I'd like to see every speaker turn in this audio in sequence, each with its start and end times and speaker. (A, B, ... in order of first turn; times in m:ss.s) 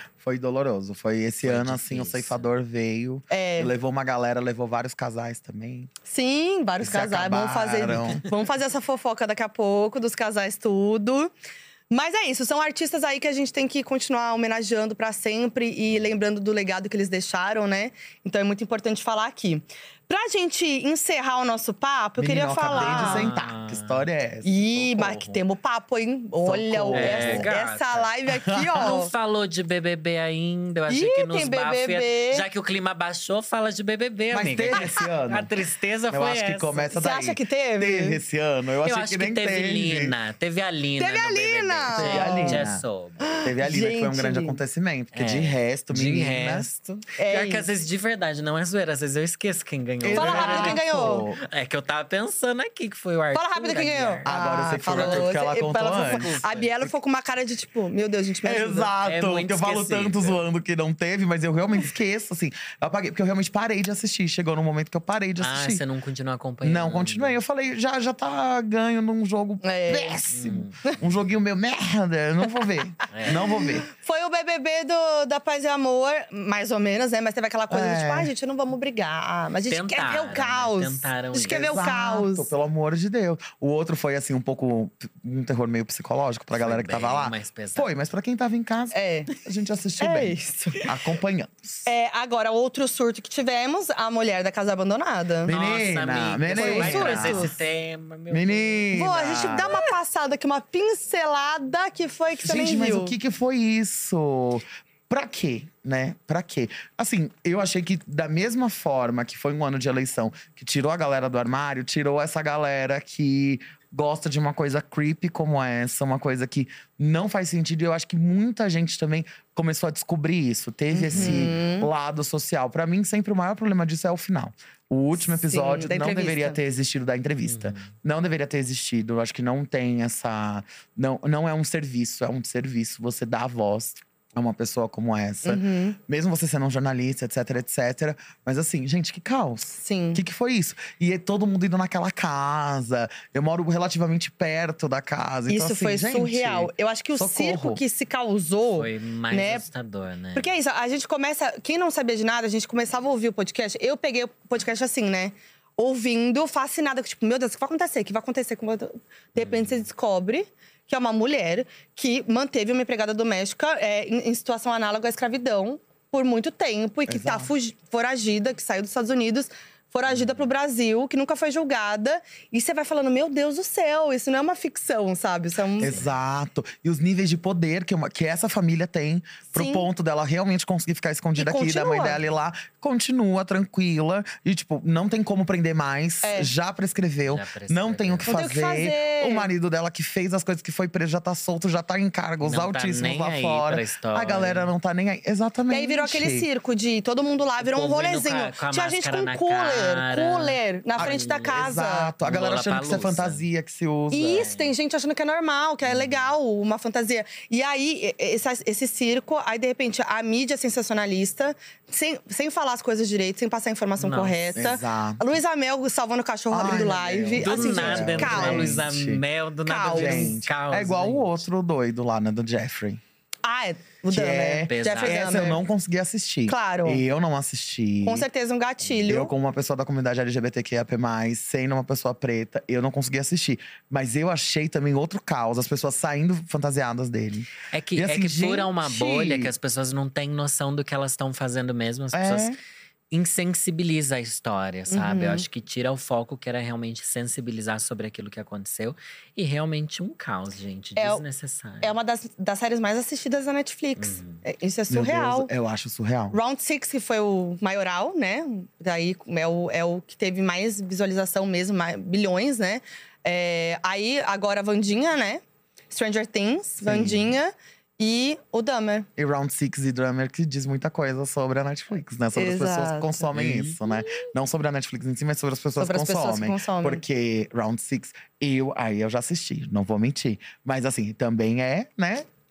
0:00.2-0:05.9 A
0:01.4-0:02.5 B
0:03.3-0:03.7 C
0:06.1-0:11.3 C
0:06.8-0:08.2 A
0:11.9-0:23.3 C
0:15.9-0:16.2 B
0:22.2-0:25.4 A
0:22.7-0:24.0 B
0:24.4-0:29.1 C
0:26.4-0:27.5 A
0:26.9-0:28.1 B
0:28.4-0:28.9 A
0:28.8-0:36.9 B
0:30.9-0:32.4 C
0:34.3-0:35.5 A
0:36.1-0:40.2 A
0:37.0-0:38.2 C
0:38.8-0:43.6 B
0:41.0-0:42.6 C
0:41.9-0:42.8 A
0:43.2-0:44.6 C
0:43.4-0:46.7 A
0:45.1-0:54.3 B
0:47.2-0:47.7 C
0:50.0-0:51.4 A
0:50.1-0:51.3 C
0:53.3-0:58.9 C
0:54.2-0:56.4 A
0:54.8-0:56.7 B
0:58.4-1:05.8 A
0:59.0-1:00.5 B
1:05.4-1:07.4 B
1:06.6-1:13.9 A
1:09.6-1:10.2 C
1:10.3-1:11.2 B
1:13.1-1:13.6 B
1:13.4-1:22.5 C
1:17.7-1:18.3 A
1:19.7-1:21.8 B
1:21.5-1:31.9 A
1:26.6-1:27.9 B
1:28.9-1:29.3 C
1:30.0-1:30.9 C
1:31.9-1:35.5 C
1:35.4-1:38.9 B
1:35.5-1:37.6 A
1:36.5-1:37.5 C
1:38.3-1:39.7 A
1:38.9-1:43.2 C
1:42.4-2:27.8 A
2:00.9-2:01.9 C
2:01.1-2:01.5 B
2:05.2-2:06.6 C
2:07.4-2:07.9 B
2:15.4-2:16.0 C
2:19.8-2:20.2 C
2:25.5-2:29.7 C
2:28.8-2:30.6 B
2:30.4-2:56.0 C
2:39.4-2:39.9 B
2:47.1-2:47.5 A
2:50.1-2:50.5 B
2:55.8-3:16.5 A
2:55.9-2:56.2 B
2:59.5-2:59.9 C
3:01.4-3:02.2 C
3:06.2-3:06.5 C
3:07.3-3:08.4 B
3:08.3-3:09.5 C
3:12.4-3:14.7 B
3:15.7-3:22.1 C
3:17.6-3:23.4 B
3:21.0-3:24.5 A
3:24.1-3:38.8 C
3:24.4-3:24.8 B
3:25.9-3:26.3 B
3:34.0-3:34.4 B
3:34.6-3:35.2 A
3:36.5-3:39.2 A
3:37.4-3:41.4 B
3:39.7-3:40.4 C
3:39.9-3:43.0 A
3:43.4-3:45.6 C
3:44.1-3:48.3 A
3:44.7-3:45.5 B
3:46.5-3:47.0 C
3:48.0-3:49.3 C
3:49.0-3:59.5 A
3:57.7-4:02.6 B
4:02.1-4:02.6 A
4:03.1-4:11.9 B
4:04.9-4:05.4 C
4:11.0-4:11.2 C
4:11.8-4:15.5 C
4:14.0-4:14.4 B
4:14.9-4:16.4 A
4:16.3-4:29.1 C
4:26.8-4:27.4 A
4:29.2-4:42.3 A
4:32.3-4:33.3 C
4:33.3-4:33.9 B
4:35.8-4:37.0 C